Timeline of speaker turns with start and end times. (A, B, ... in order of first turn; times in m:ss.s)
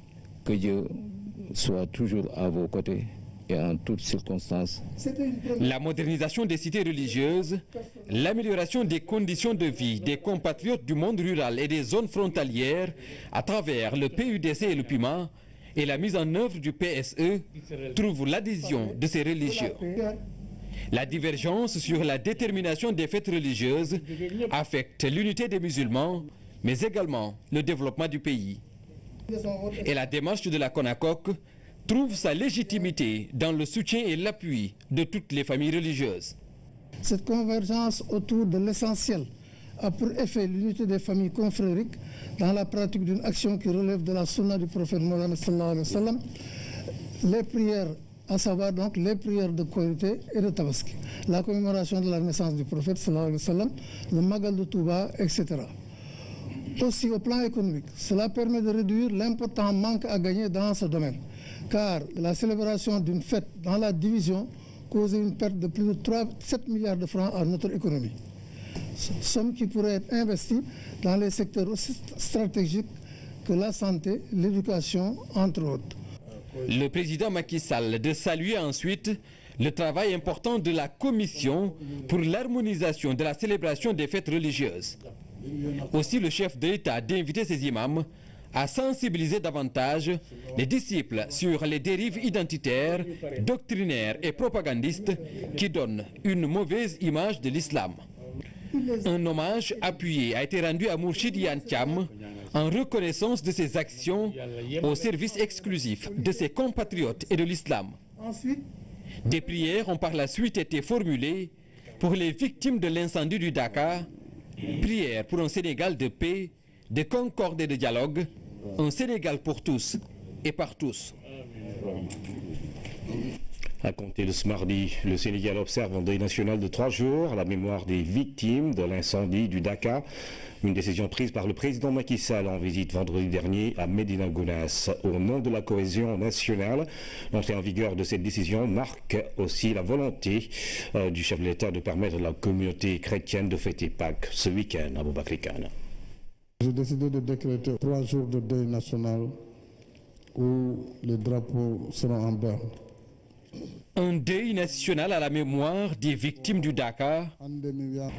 0:00.4-0:04.8 A
0:05.0-0:05.5 B
0:05.6-0:19.8 C
0:19.5-0:20.2 B
0:20.9-0:28.6 C
0:29.3-0:29.8 B
0:29.8-0:36.3 C
0:37.0-0:46.2 B
0:47.2-0:55.7 B
0:56.8-1:08.1 B
1:09.0-1:12.9 B
1:13.4-1:16.0 B
1:16.6-1:25.0 C
1:25.9-1:38.0 C
1:38.7-1:39.0 B
1:39.0-1:48.0 C
1:48.2-1:48.6 B
1:49.2-1:54.1 C
1:54.6-2:01.1 C
2:03.8-2:10.0 D
2:10.6-2:25.7 D
2:26.6-2:29.4 E
2:30.4-2:32.7 E
2:34.0-2:37.3 C
2:37.5-2:38.0 E